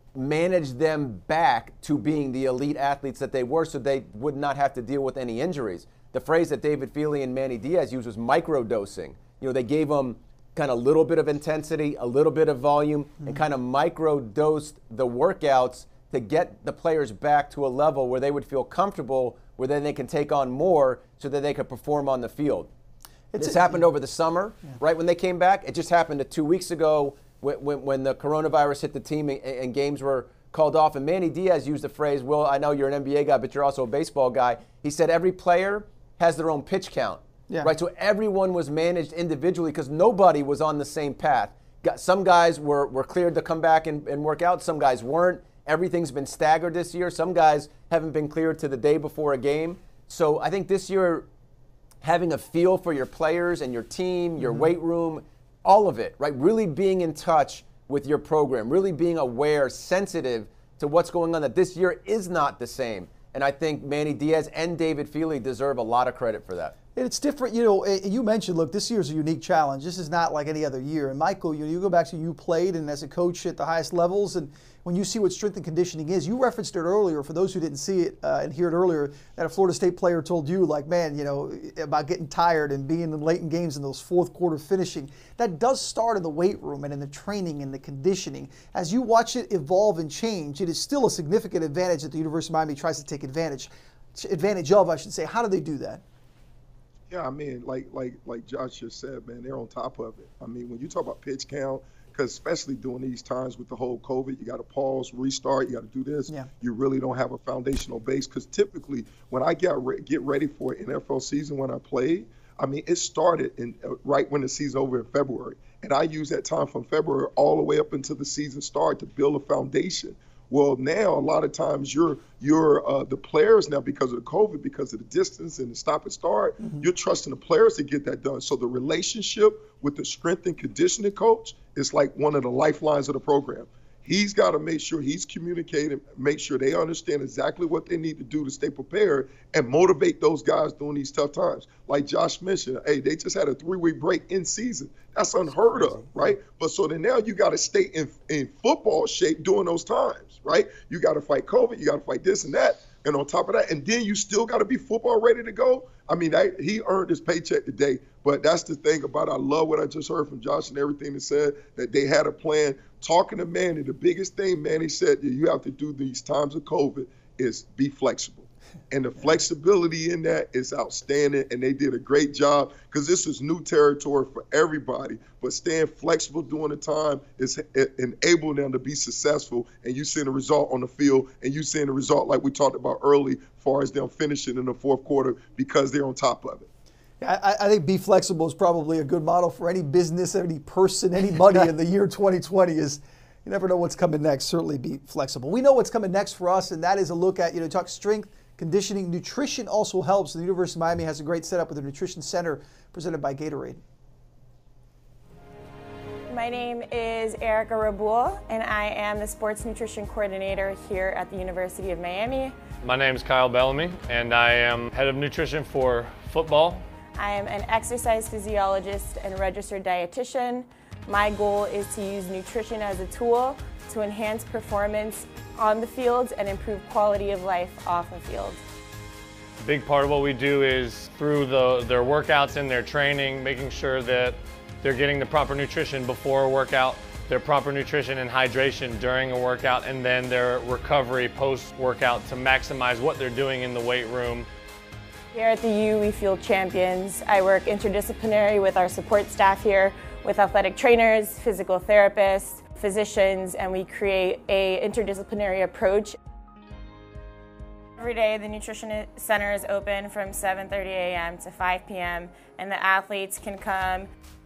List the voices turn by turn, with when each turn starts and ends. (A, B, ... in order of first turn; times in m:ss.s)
0:00.1-0:22.7 A
0:23.3-0:23.9 B
0:23.4-0:51.3 A
0:52.0-1:06.8 A
0:54.4-0:54.7 B
1:07.0-1:36.0 B
1:37.1-3:06.7 C
2:06.6-2:06.9 B
2:25.5-2:26.4 B
3:07.2-3:23.8 B
3:26.3-3:32.5 D
3:32.8-3:36.8 E
3:37.2-3:48.6 D
3:49.6-4:04.5 E
4:05.3-4:16.1 D
4:18.0-4:24.1 D